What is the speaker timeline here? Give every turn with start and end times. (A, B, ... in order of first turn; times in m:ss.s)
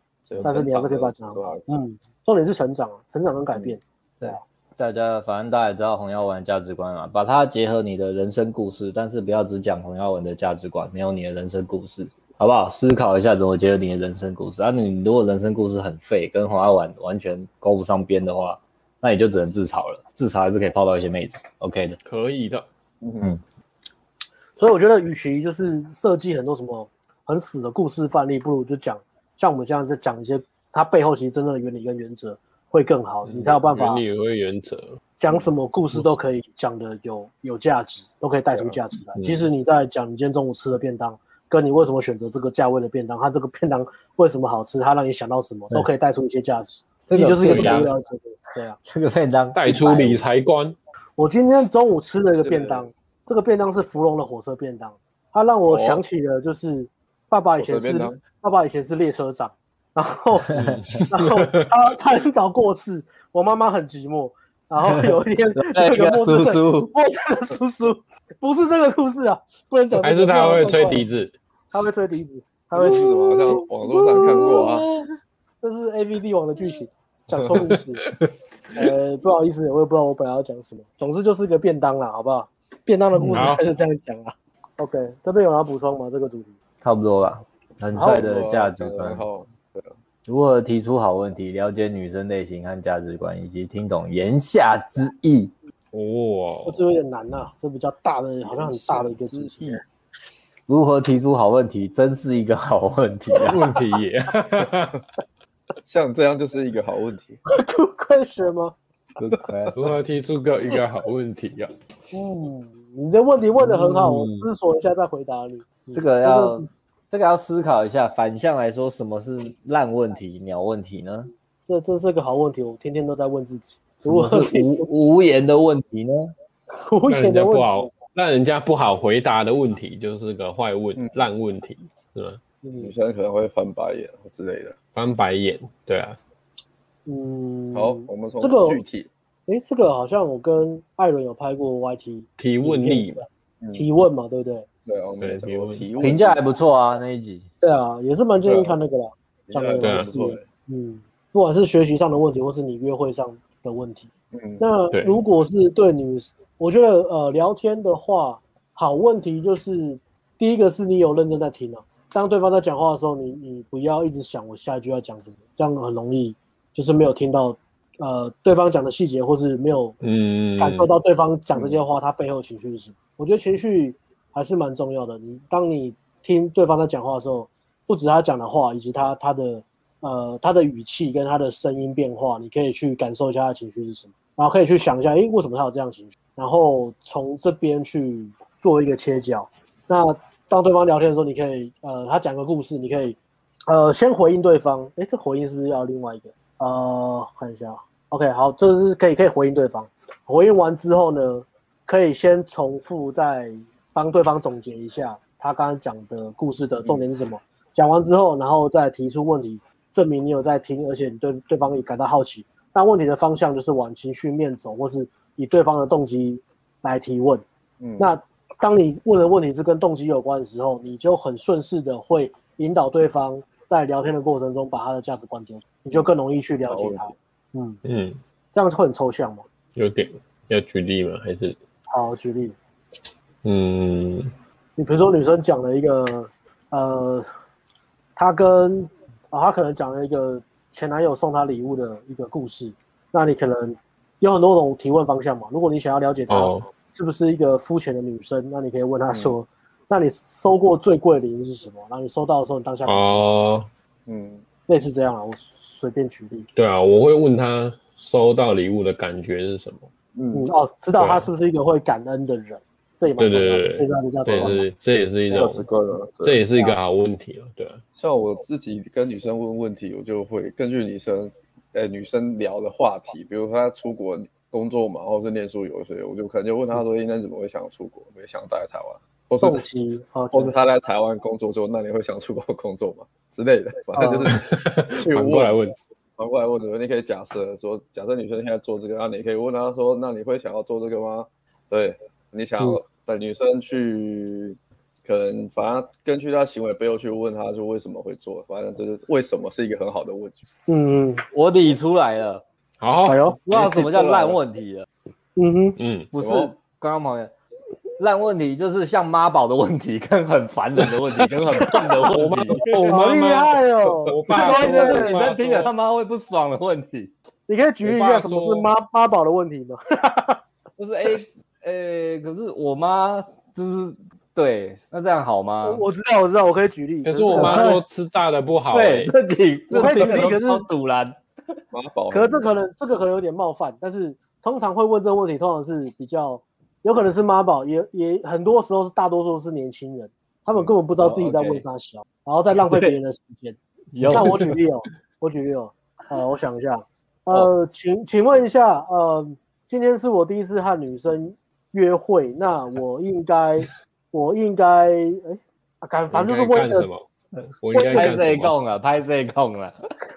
0:00.3-0:01.7 A
0:00.4-0:04.4 B
0:04.2-0:22.0 C
0:22.0-0:22.7 D
0:23.0-0:23.4 A
0:24.6-0:34.0 B
0:33.3-0:35.0 D
0:35.2-0:48.8 B
0:39.2-0:39.5 D
0:47.1-0:47.9 C
0:47.4-0:47.9 D
0:48.9-0:50.2 C
0:49.6-0:50.8 D
0:51.2-1:11.0 B
0:52.4-0:52.9 A
0:55.7-0:56.0 A
0:57.6-0:58.2 A
1:00.5-1:01.0 C
1:00.6-1:01.7 D
1:05.6-1:06.9 C
1:10.0-1:11.3 D
1:11.7-1:13.6 B
1:12.7-1:14.9 A
1:12.9-1:15.1 C
1:15.6-1:18.1 B
1:18.8-1:26.5 B
1:23.1-1:23.5 C
1:23.4-1:23.6 D
1:26.8-1:29.3 C
1:27.9-1:28.3 B
1:28.0-1:29.9 A
1:30.3-1:35.5 C
1:35.9-1:36.8 D
1:36.7-1:39.8 B
1:38.4-1:39.8 A
1:40.7-1:43.8 C
1:43.4-1:45.0 D
1:45.8-1:47.4 A
1:47.5-1:48.8 B
1:49.3-1:49.9 C
1:49.7-1:51.7 D
1:52.1-1:56.7 B
1:53.9-1:54.4 D
1:55.9-2:01.3 C
2:01.7-2:04.9 B
2:04.0-2:06.3 C
2:06.7-2:07.9 B
2:07.1-2:12.4 D
2:11.0-2:11.2 A
2:12.6-2:12.9 B
2:12.8-2:14.8 A
2:15.0-2:16.2 D
2:17.1-2:18.8 B
2:17.7-2:19.1 A
2:19.5-2:24.7 B
2:22.4-2:23.2 D
2:23.6-2:23.9 A
2:24.9-2:26.4 A
2:25.2-2:25.9 D
2:26.0-2:27.5 C
2:27.6-2:34.1 B
2:28.4-2:28.8 A
2:29.5-2:30.5 A
2:29.8-2:30.1 D
2:34.3-2:34.6 A
2:34.6-2:50.0 B
2:34.9-2:35.2 D
2:50.0-2:50.9 D
2:50.6-3:37.4 B
2:51.5-2:51.8 A
3:37.8-3:38.1 A
3:38.0-3:47.8 B
3:46.7-3:47.1 A
3:47.8-3:48.2 D
3:48.5-3:49.4 B
3:49.8-3:51.6 D
3:51.9-3:52.6 B
3:53.4-3:54.3 D
3:54.8-3:57.3 B
3:58.2-4:13.3 B
4:06.3-4:06.6 D
4:09.1-4:09.4 A
4:12.9-4:13.7 D
4:14.1-4:14.4 A
4:14.7-4:16.5 B
4:16.6-4:19.9 D
4:20.1-4:20.5 A
4:20.3-4:24.7 B
4:21.0-4:21.3 D
4:23.2-4:25.6 D
4:25.3-4:26.4 A
4:26.2-4:27.8 D
4:28.0-4:39.6 A
4:39.4-4:40.5 B
4:40.3-4:44.4 A
4:44.0-4:44.3 B
4:44.3-4:45.8 D
4:45.0-4:45.6 A
4:46.2-5:00.4 A
5:00.7-5:01.2 B
5:01.3-5:02.4 C
5:02.8-5:03.2 D
5:03.0-5:04.9 C
5:03.0-5:03.4 B
5:03.5-5:04.4 A
5:05.4-5:05.8 B
5:05.8-5:06.1 D
5:06.1-5:07.3 C
5:06.2-5:06.5 A
5:08.0-5:12.9 C
5:12.1-5:15.7 D
5:12.8-5:15.2 B
5:14.3-5:17.1 C
5:17.5-5:20.4 B
5:17.8-5:18.7 D
5:20.8-5:25.8 C
5:25.6-5:27.8 B
5:27.1-5:29.1 D
5:27.3-5:27.8 C
5:28.7-5:31.2 C
5:29.7-5:30.7 B
5:31.7-5:32.5 A
5:32.1-5:56.9 B
5:40.6-5:41.6 A
5:43.9-5:44.6 C
5:56.1-5:57.0 D
5:57.6-5:58.5 D
5:57.7-5:58.2 B
5:57.9-5:59.7 C